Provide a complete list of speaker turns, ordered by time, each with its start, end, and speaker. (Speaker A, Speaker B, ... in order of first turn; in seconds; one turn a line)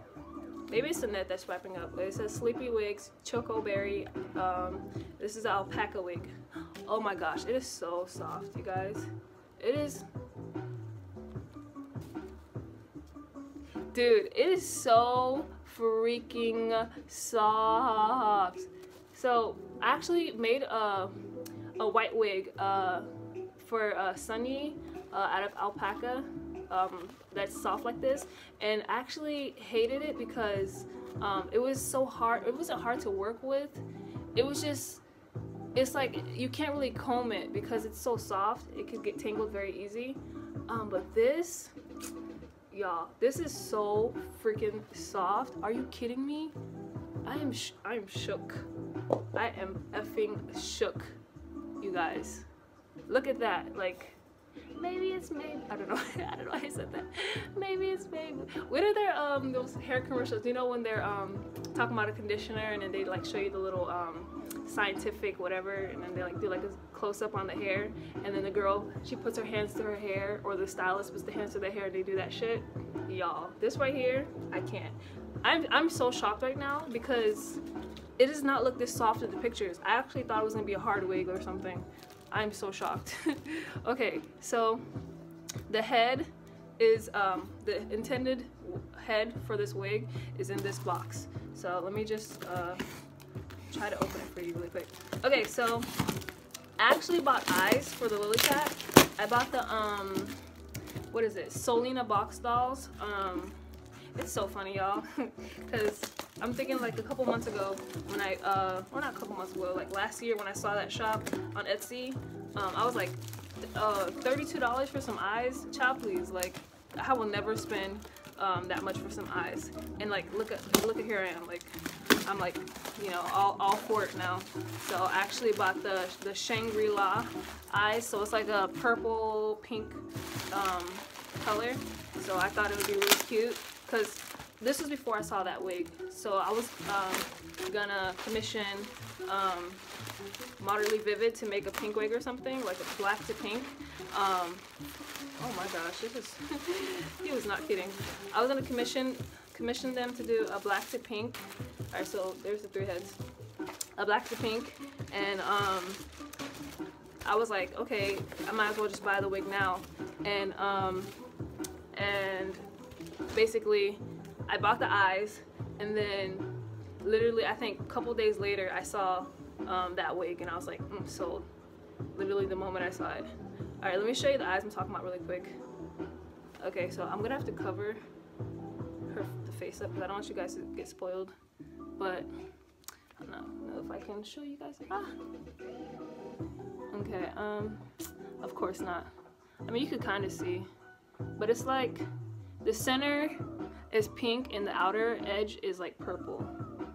Speaker A: 0.7-10.1
Speaker A: 13.9-21.3
Speaker A: 21.8-35.0
Speaker A: 35.7-41.7
Speaker A: 42.7-46.5
Speaker A: 47.2-48.7
Speaker A: 49.3-51.2
Speaker A: 51.8-52.5
Speaker A: 53.1-54.2
Speaker A: 54.7-77.6
Speaker A: 78.2-84.8
Speaker A: 85.7-92.8
Speaker A: 93.7-95.9
Speaker A: 96.8-100.4
Speaker A: 101.1-103.6
Speaker A: 104.1-139.8
Speaker A: 140.6-144.7
Speaker A: 145.4-153.2
Speaker A: 153.9-156.0
Speaker A: 157.2-161.2
Speaker A: 161.9-162.7
Speaker A: 163.3-171.5
Speaker A: 172.1-173.3
Speaker A: 173.8-175.6
Speaker A: 176.6-178.0
Speaker A: 179.1-181.3
Speaker A: 182.0-182.3
Speaker A: 183.2-185.2
Speaker A: 186.9-189.1
Speaker A: 189.6-190.7
Speaker A: 191.4-192.1
Speaker A: 192.6-196.5